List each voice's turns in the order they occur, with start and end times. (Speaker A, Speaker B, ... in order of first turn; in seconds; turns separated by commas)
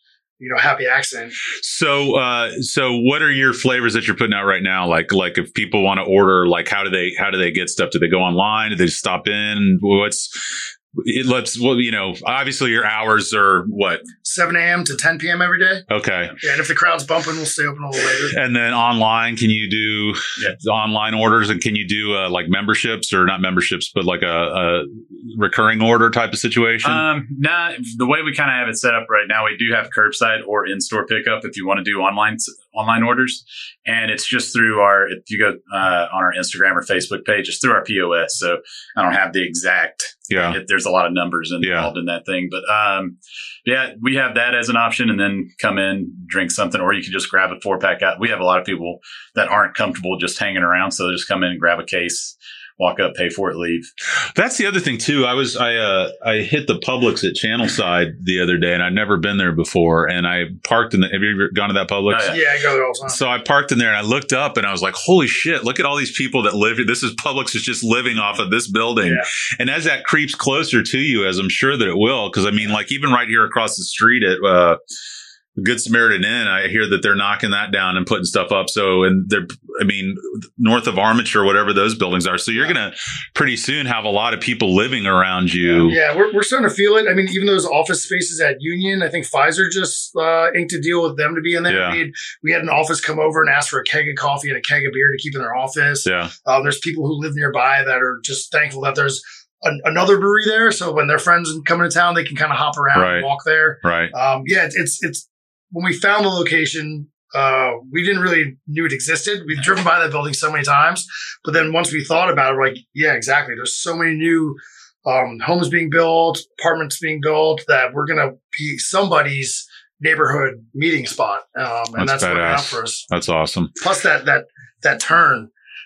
Speaker A: 0.4-1.4, Speaker B: 1.6-14.0, Speaker A: 14.2-15.8, Speaker B: 15.9-16.3, Speaker A: 16.4-18.4, Speaker B: 18.3-27.0, Speaker C: 26.8-53.9, Speaker B: 40.3-40.6, Speaker B: 41.6-41.9, Speaker B: 54.3-62.4, Speaker C: 62.1-62.4, Speaker A: 62.3-63.2, Speaker B: 63.0-74.8, Speaker A: 69.0-69.3, Speaker B: 75.6-86.0, Speaker A: 85.6-123.0, Speaker B: 91.7-92.0, Speaker B: 96.0-96.3, Speaker B: 102.9-103.3, Speaker B: 103.8-104.1, Speaker B: 122.0-123.8, Speaker A: 123.8-125.5